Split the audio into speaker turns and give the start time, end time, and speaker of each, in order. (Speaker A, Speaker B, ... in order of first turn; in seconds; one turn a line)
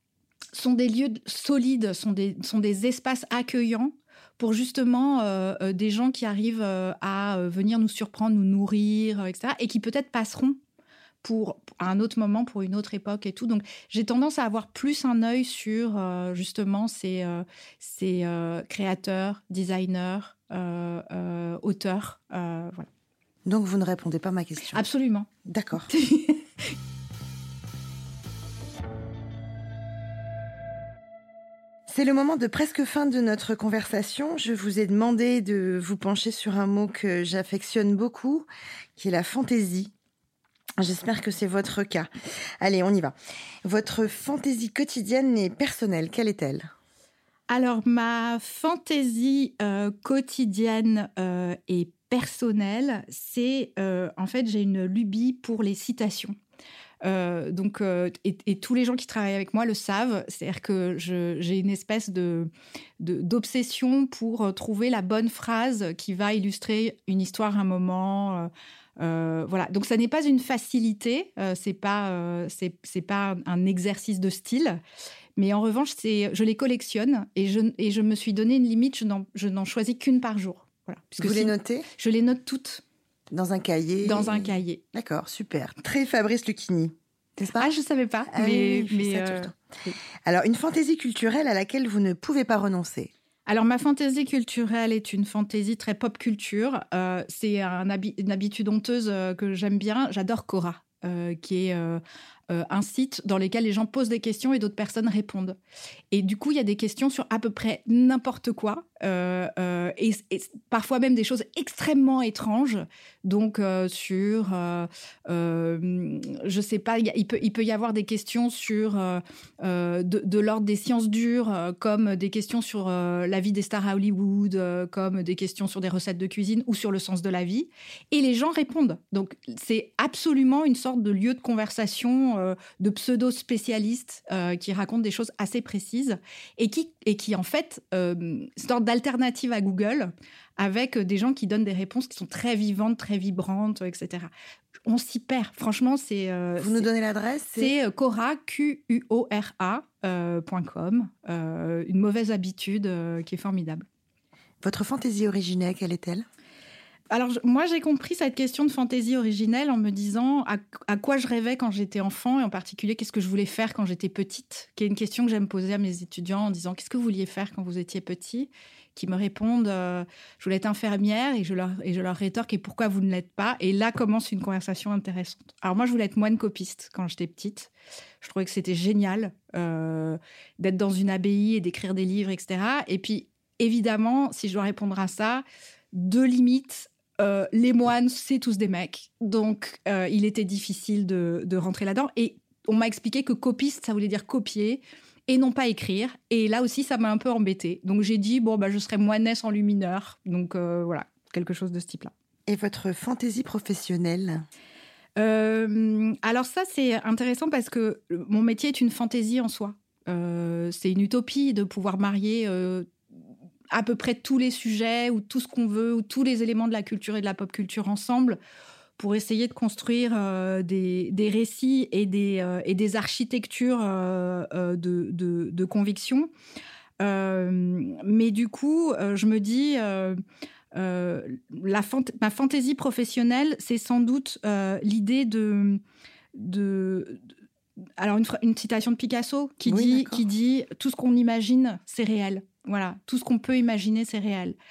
Speaker A: 0.5-10.6
Speaker A: 11.2-22.9
Speaker B: 23.4-24.8
Speaker A: 24.7-25.3
Speaker B: 25.4-25.9
Speaker A: 25.9-26.7
Speaker B: 31.9-39.9
Speaker B: 40.8-42.1
Speaker B: 42.6-46.7
Speaker A: 47.5-56.3
Speaker A: 57.0-62.5
Speaker A: 63.0-74.8
Speaker A: 75.4-82.8
Speaker B: 81.2-81.9
Speaker B: 83.3-87.7
Speaker A: 84.0-84.8
Speaker A: 87.6-90.0
Speaker B: 88.3-93.1
Speaker A: 93.5-105.6
Speaker A: 106.1-144.3
Speaker A: 144.9-146.9
Speaker B: 146.6-147.7
Speaker A: 147.5-153.8
Speaker B: 154.6-156.2
Speaker A: 157.1-202.1
Speaker B: 202.5-204.5
Speaker A: 205.2-212.9
Speaker A: 213.7-218.4
Speaker A: 219.0-226.3
Speaker A: 227.0-230.2
Speaker A: 230.7-235.8
Speaker A: 236.3-237.2
Speaker A: 238.0-244.6
Speaker B: 239.7-240.2